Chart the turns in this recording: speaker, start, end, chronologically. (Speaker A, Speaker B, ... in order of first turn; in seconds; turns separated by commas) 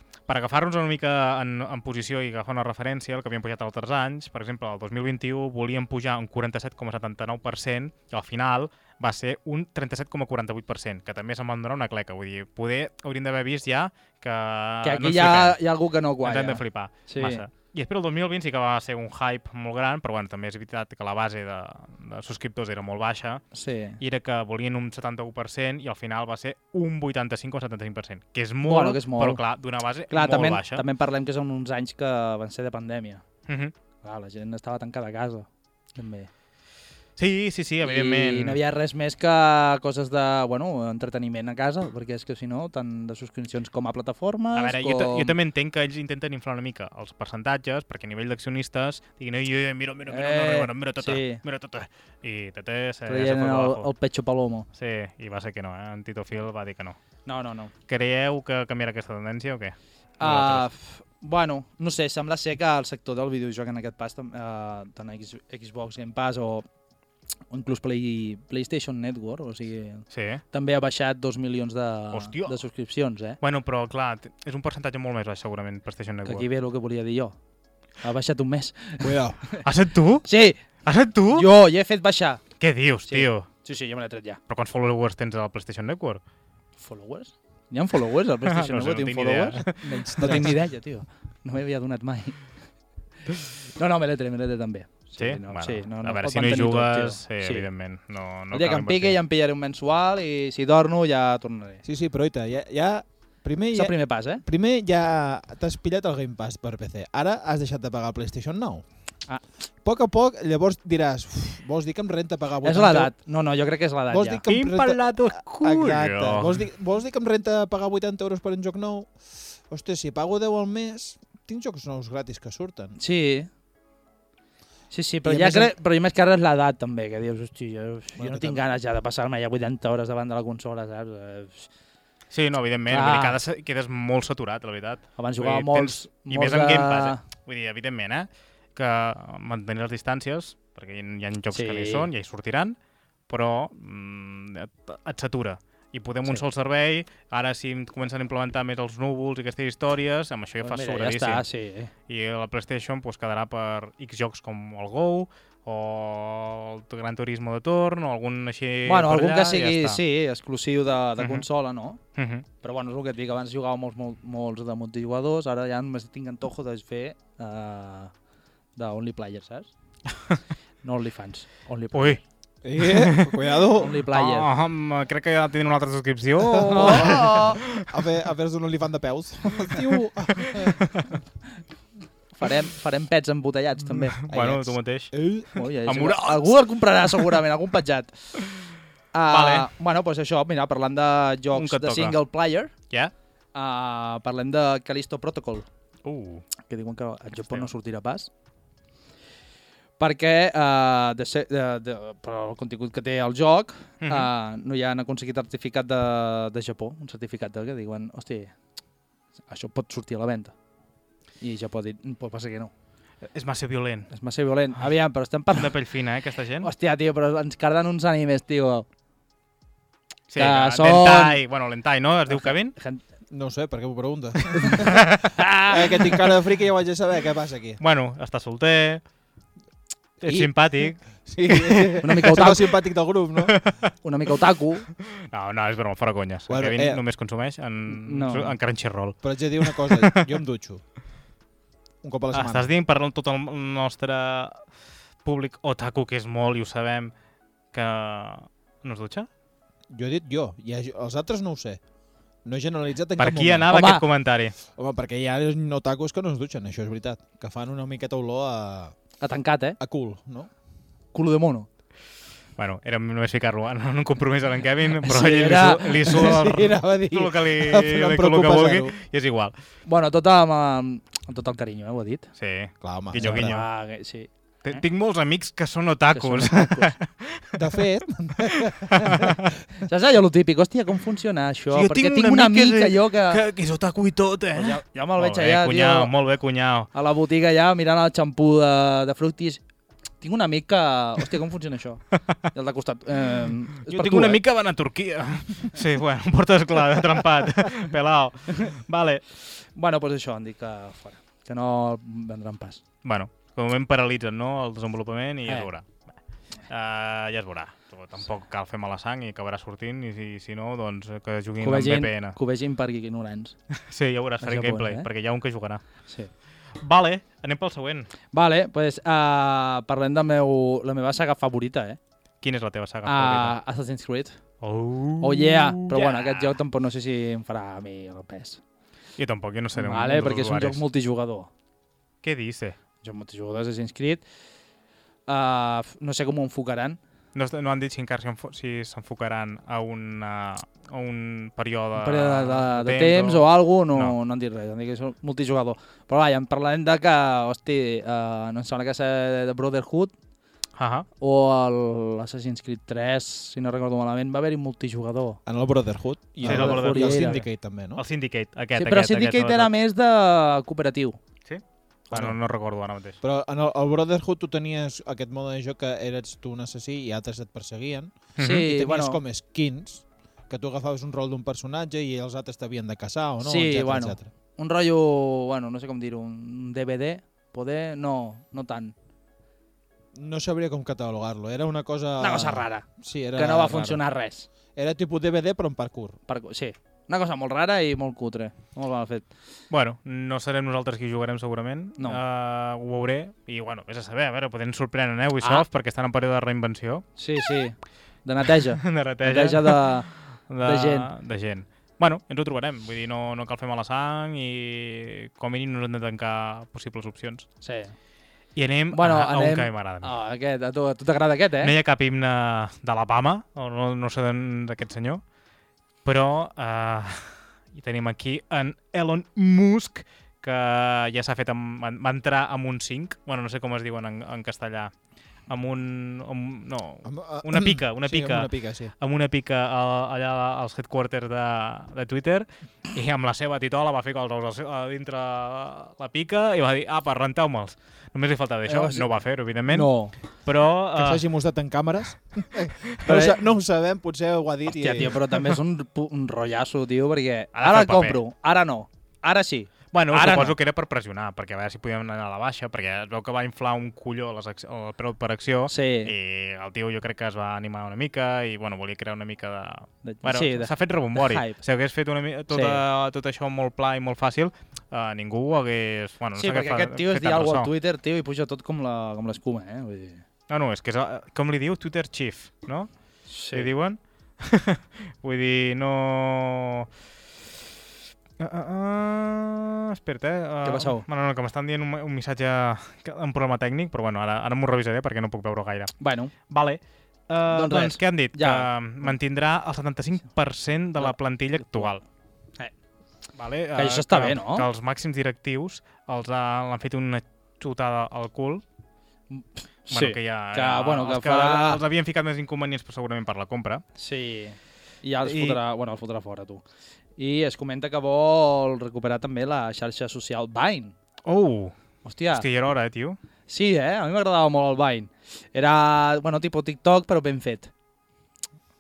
Speaker A: 0.3-15.6, Speaker B: 14.8-17.4, Speaker A: 16.2-23.4, Speaker B: 23.5-24.0, Speaker A: 24.0-30.8, Speaker B: 28.6-29.4, Speaker B: 30.1-33.2, Speaker A: 33.5-33.7, Speaker B: 34.0-36.3, Speaker A: 37.2-38.6, Speaker B: 37.8-45.3, Speaker A: 44.5-53.9, Speaker B: 50.1-51.4, Speaker B: 53.1-54.7, Speaker A: 54.7-57.0, Speaker B: 57.2-57.7, Speaker A: 57.9-60.6, Speaker B: 60.2-66.7, Speaker B: 67.5-73.4, Speaker A: 70.1-70.4, Speaker A: 72.1-72.6, Speaker A: 73.4-76.5, Speaker B: 76.2-77.3, Speaker B: 78.0-79.6, Speaker C: 79.0-79.4, Speaker A: 79.6-80.3, Speaker B: 80.2-80.6, Speaker A: 80.8-81.5, Speaker B: 81.3-82.4, Speaker A: 82.6-83.5, Speaker B: 83.1-84.4, Speaker A: 84.5-86.2, Speaker B: 86.8-92.4, Speaker A: 88.4-90.5, Speaker C: 89.8-90.5, Speaker B: 93.8-97.7, Speaker A: 95.2-99.2, Speaker B: 98.5-101.8, Speaker C: 101.8-108.8, Speaker B: 103.7-104.4, Speaker C: 109.8-113.1, Speaker B: 112.6-114.4, Speaker C: 114.1-123.0, Speaker A: 114.5-116.6, Speaker B: 123.0-123.5, Speaker B: 124.9-131.7, Speaker C: 125.2-125.7, Speaker C: 128.2-128.6, Speaker A: 132.3-142.8, Speaker B: 132.9-133.4, Speaker B: 135.2-137.2, Speaker B: 141.5-142.1, Speaker A: 143.3-151.4, Speaker B: 150.6-151.9, Speaker A: 152.1-160.0, Speaker B: 158.8-162.0, Speaker A: 161.2-161.4, Speaker A: 162.2-162.4, Speaker B: 162.6-168.1, Speaker B: 168.8-169.7, Speaker B: 170.8-172.2, Speaker A: 171.9-172.2, Speaker C: 172.6-174.0, Speaker A: 172.8-178.0, Speaker B: 173.8-174.5, Speaker C: 176.4-180.9, Speaker B: 176.7-177.6, Speaker A: 179.6-181.2, Speaker B: 182.3-184.2, Speaker A: 184.2-185.2, Speaker C: 184.3-185.5, Speaker B: 185.5-188.1, Speaker A: 185.8-186.5, Speaker B: 189.1-192.7, Speaker A: 189.3-189.7, Speaker A: 191.5-192.2, Speaker B: 193.5-195.7, Speaker A: 196.0-196.5, Speaker B: 196.6-198.3, Speaker A: 197.3-197.7, Speaker B: 200.0-208.5, Speaker A: 204.0-204.3, Speaker B: 209.5-210.5, Speaker B: 211.4-212.7, Speaker A: 213.3-214.1, Speaker B: 214.1-215.8, Speaker A: 215.5-216.7, Speaker B: 216.6-218.8, Speaker A: 220.3-222.7, Speaker B: 220.3-221.4, Speaker B: 222.3-223.0, Speaker C: 223.3-227.8, Speaker B: 224.6-226.2, Speaker A: 224.8-225.3, Speaker A: 227.8-229.0, Speaker A: 230.2-232.6, Speaker C: 230.2-230.5, Speaker C: 231.0-233.6, Speaker B: 232.0-232.7, Speaker A: 233.4-233.9, Speaker B: 234.0-234.8, Speaker A: 235.0-240.3, Speaker C: 236.5-237.0, Speaker B: 237.9-238.6, Speaker C: 239.2-240.8, Speaker C: 242.0-242.7, Speaker A: 242.3-244.6, Speaker A: 245.2-247.1, Speaker A: 247.7-249.3, Speaker C: 249.9-251.8, Speaker C: 252.4-253.7, Speaker A: 253.2-254.6, Speaker B: 253.7-254.0, Speaker C: 254.7-258.9, Speaker B: 259.2-259.8, Speaker C: 259.8-260.5, Speaker B: 261.1-261.7, Speaker A: 262.6-269.5, Speaker B: 265.0-266.4, Speaker C: 266.1-268.9, Speaker B: 269.9-272.3, Speaker A: 272.4-273.6, Speaker C: 272.8-273.6, Speaker B: 273.2-274.8, Speaker A: 274.6-277.6, Speaker B: 276.1-276.9, Speaker C: 277.5-279.4, Speaker A: 278.5-279.5, Speaker B: 279.8-283.4, Speaker A: 281.7-286.9, Speaker B: 284.6-286.1, Speaker B: 286.9-289.6, Speaker B: 290.2-294.4, Speaker A: 293.8-299.2, Speaker B: 299.7-302.8, Speaker A: 303.0-305.9, Speaker A: 306.7-312.4, Speaker B: 311.6-313.6, Speaker A: 313.9-315.8, Speaker B: 314.4-315.1, Speaker A: 316.8-318.1, Speaker B: 318.3-322.0, Speaker A: 322.4-323.5, Speaker B: 323.1-324.4, Speaker A: 324.6-326.5, Speaker B: 325.2-328.6, Speaker A: 329.2-330.8, Speaker B: 329.7-331.5, Speaker A: 332.2-332.8, Speaker B: 333.0-334.2, Speaker B: 335.3-337.0, Speaker A: 337.3-344.1, Speaker B: 342.0-350.1, Speaker A: 350.8-351.1, Speaker B: 351.2-355.4, Speaker C: 355.4-358.0, Speaker B: 356.4-357.4, Speaker A: 356.4-357.4, Speaker A: 357.9-359.7, Speaker B: 358.8-361.2, Speaker A: 361.4-363.2, Speaker C: 363.2-374.3, Speaker A: 368.4-368.7, Speaker B: 368.4-369.2, Speaker B: 373.4-378.9, Speaker C: 380.1-384.0, Speaker B: 382.2-384.5, Speaker C: 384.7-386.2, Speaker B: 386.3-389.2, Speaker A: 389.7-397.1, Speaker B: 397.2-400.1, Speaker A: 398.8-407.5, Speaker B: 400.6-401.1, Speaker B: 407.6-407.9, Speaker A: 408.6-410.1, Speaker B: 408.9-411.7, Speaker A: 411.6-415.2, Speaker A: 416.0-424.9, Speaker A: 425.5-439.9, Speaker C: 427.0-428.9, Speaker B: 438.7-439.1, Speaker B: 439.7-440.1, Speaker A: 440.4-441.2, Speaker C: 440.9-445.2, Speaker B: 443.1-443.4, Speaker B: 444.7-450.6, Speaker A: 447.5-448.2, Speaker A: 449.9-467.7, Speaker B: 455.7-456.1, Speaker B: 460.0-461.6, Speaker B: 462.5-462.8, Speaker B: 466.4-470.2, Speaker A: 470.5-472.9, Speaker B: 473.3-473.7, Speaker A: 473.5-476.9, Speaker A: 478.4-485.9, Speaker B: 480.6-481.0, Speaker B: 486.0-486.3, Speaker A: 486.5-492.0, Speaker B: 487.5-489.1, Speaker A: 493.3-498.6, Speaker B: 493.7-494.6, Speaker B: 499.3-501.8, Speaker A: 499.9-503.8, Speaker B: 504.0-506.6, Speaker A: 505.2-505.6, Speaker B: 507.2-510.9, Speaker A: 511.2-511.8, Speaker B: 512.0-512.4, Speaker A: 512.3-513.2, Speaker B: 513.5-517.7